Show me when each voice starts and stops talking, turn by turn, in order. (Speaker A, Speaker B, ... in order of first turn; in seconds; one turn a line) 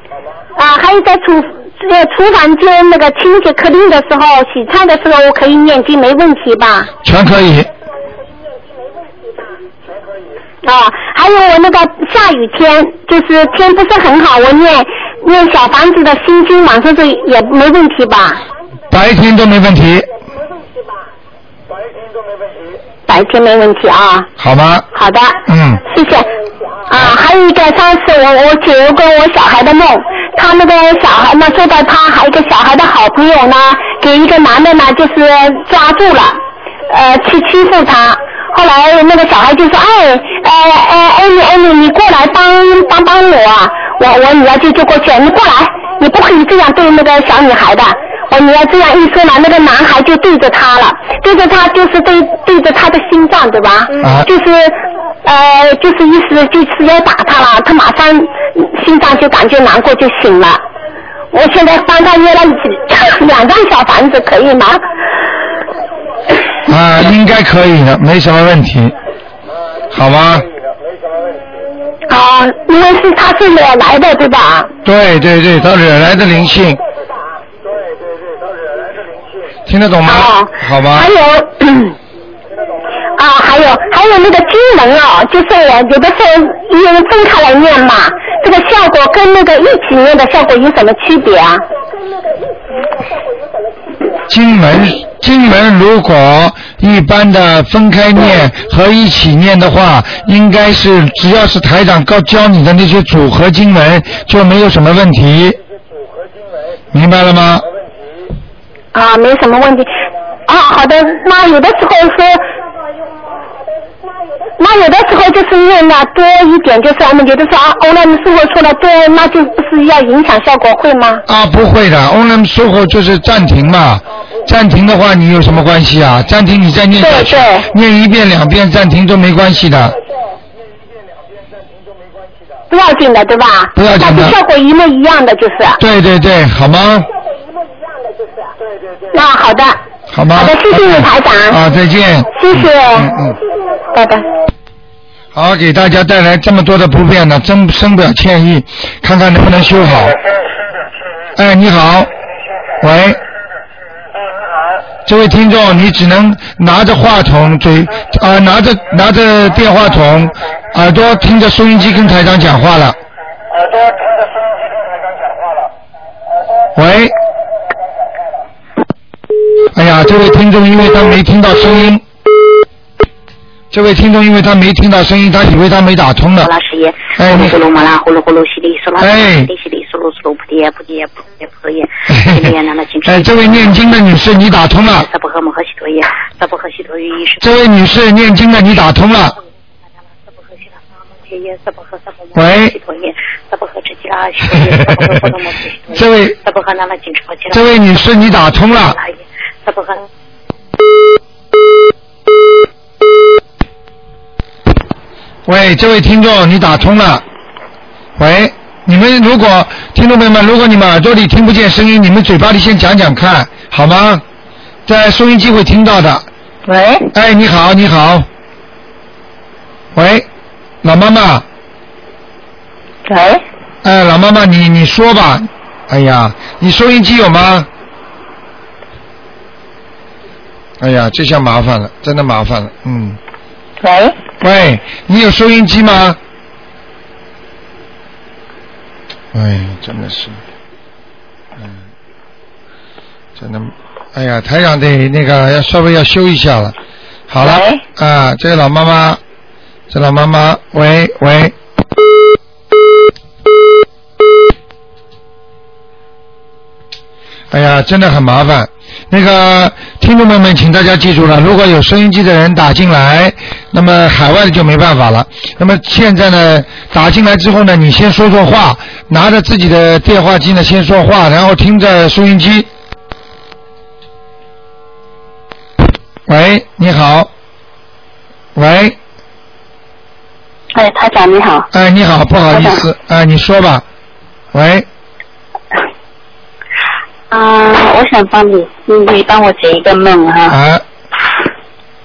Speaker A: 0.6-6.9
Speaker B: 7.0-7.7
Speaker A: 10.6-18.4
Speaker B: 18.9-20.1
Speaker A: 23.1-24.3
Speaker B: 24.4-24.9
Speaker A: 24.9-26.3
Speaker B: 25.5-25.8
Speaker A: 26.9-60.6
Speaker B: 54.0-54.3
Speaker A: 61.3-64.8
Speaker B: 66.7-68.9
Speaker B: 69.9-70.5
Speaker A: 72.1-74.7
Speaker B: 74.8-76.8
Speaker B: 79.7-81.1
Speaker A: 80.1-82.0
Speaker A: 83.2-91.7
Speaker B: 94.3-105.6
Speaker B: 106.9-107.7
Speaker A: 108.9-109.9
Speaker A: 110.5-112.5
Speaker A: 114.6-121.2
Speaker B: 121.3-130.0
Speaker A: 127.0-127.7
Speaker A: 132.7-135.8
Speaker B: 133.8-134.4
Speaker B: 135.8-137.1
Speaker A: 139.1-139.8
Speaker B: 140.1-143.4
Speaker A: 140.3-141.6
Speaker A: 142.3-143.1
Speaker A: 143.9-144.3
Speaker B: 145.3-150.2
Speaker B: 151.4-152.1
Speaker B: 152.8-153.2
Speaker B: 155.1-163.0
Speaker B: 166.8-167.2
Speaker B: 169.7-172.0
Speaker B: 173.7-176.5
Speaker C: 176.4-183.8
Speaker B: 177.2-177.6
Speaker B: 179.0-179.5
Speaker B: 182.1-185.1
Speaker C: 184.9-187.6
Speaker B: 187.4-189.4
Speaker C: 190.2-197.8
Speaker B: 192.3-192.8
Speaker B: 194.5-195.1
Speaker B: 195.9-196.4
Speaker B: 197.5-199.0
Speaker C: 198.7-200.1
Speaker B: 205.5-207.2
Speaker B: 208.2-214.2
Speaker B: 214.9-216.3
Speaker D: 216.7-217.1
Speaker B: 217.1-218.3
Speaker B: 219.9-220.3
Speaker B: 220.8-221.4
Speaker D: 223.1-223.4
Speaker B: 223.8-227.7
Speaker B: 230.8-233.2
Speaker B: 234.4-236.2
Speaker B: 239.3-240.4
Speaker B: 243.4-246.8
Speaker B: 247.3-249.2
Speaker B: 249.9-251.6
Speaker B: 257.5-272.7
Speaker B: 276.3-277.3
Speaker B: 278.6-279.0
Speaker D: 280.7-281.7
Speaker B: 281.7-283.8
Speaker B: 284.5-284.9
Speaker D: 287.3-290.6
Speaker B: 290.5-290.8